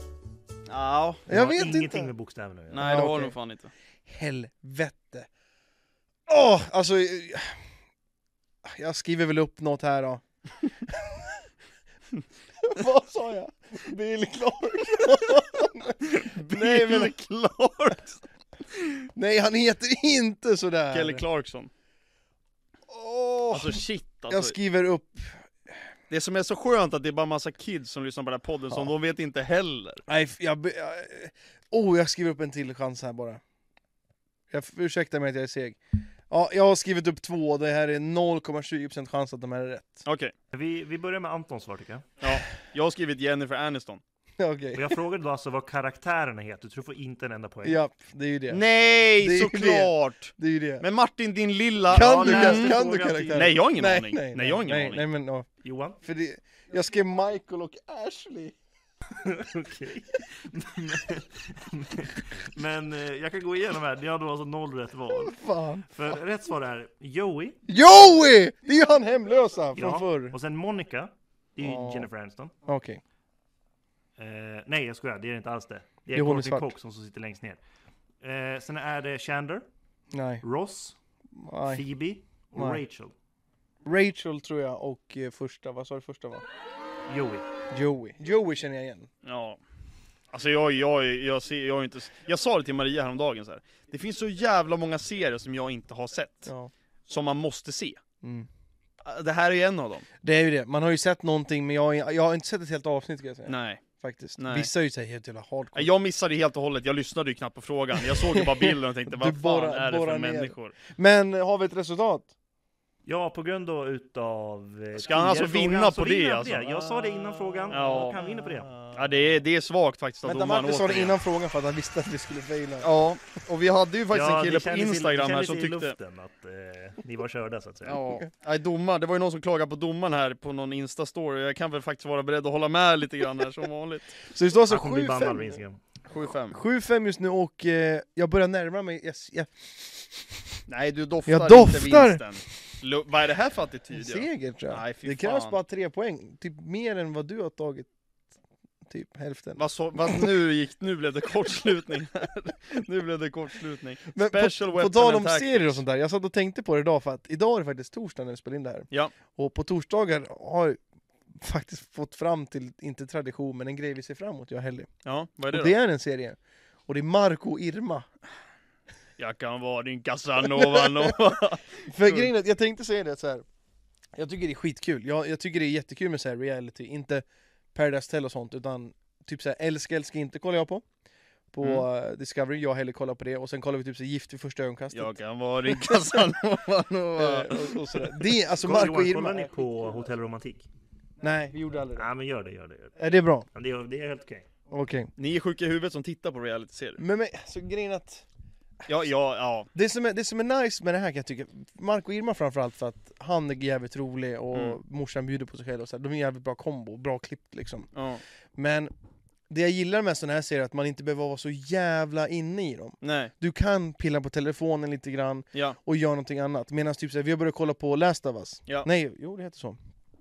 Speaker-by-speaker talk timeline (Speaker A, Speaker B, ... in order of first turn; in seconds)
Speaker A: 0.7-1.3, 2.7-3.7, 16.0-18.2, 20.9-21.7, 23.5-24.6, 26.1-30.0, 40.0-40.3, 42.2-44.0, 48.5-52.8, 53.3-55.0, 89.2-89.6, 90.3-96.5, 97.1-98.0, 99.0-100.0, 103.5-103.8, 104.4-104.7, 105.7-110.7, 114.9-116.6, 117.7-118.2, 118.9-121.2, 122.8-125.9, 127.8-134.2, 136.1-136.6, 140.7-145.6, 149.6-155.8, 165.0-165.7, 169.2-172.3, 181.6-181.8, 184.9-188.3, 195.2-197.0, 198.8-199.7, 204.5-204.8, 207.9-208.2, 213.0-213.3
Speaker B: 1.3-2.1, 2.8-3.4, 4.0-5.3, 6.3-7.6, 8.6-10.2, 10.8-11.4, 12.6-17.1, 19.1-21.2, 22.9-25.5, 30.1-33.4, 34.5-40.0, 44.4-45.0, 47.6-48.6, 49.2-50.8, 51.9-55.5, 56.0-58.5, 65.1-65.9, 67.7-70.3, 71.6-72.1, 72.7-73.0, 76.1-76.7, 80.1-80.4, 81.3-81.8, 82.5-82.8, 83.8-86.4, 87.7-89.1, 96.5-96.7, 98.2-98.5, 100.2-105.9, 108.0-112.3, 117.8-118.5, 120.2-122.9, 134.2-135.6, 136.5-140.4, 141.3-142.2, 143.9-147.9, 148.8-150.3, 154.1-164.9, 165.5-168.1, 170.4-171.2, 171.9-173.4, 174.2-180.8, 181.5-186.3, 187.1-189.7, 191.2-192.1, 193.0-193.4, 194.7-195.1, 197.0-198.2, 199.7-207.9, 208.5-208.9, 209.5-219.8
Speaker C: 1.3-2.9, 40.5-42.0, 44.7-47.8, 51.9-53.5, 55.6-56.0, 59.2-65.3, 65.9-67.6, 69.7-72.5, 74.2-77.6, 78.2-79.7, 80.4-81.0, 81.7-83.1, 87.1-87.5, 113.0-118.8, 124.1-128.0, 134.7-135.8, 188.6-190.7, 191.9-194.5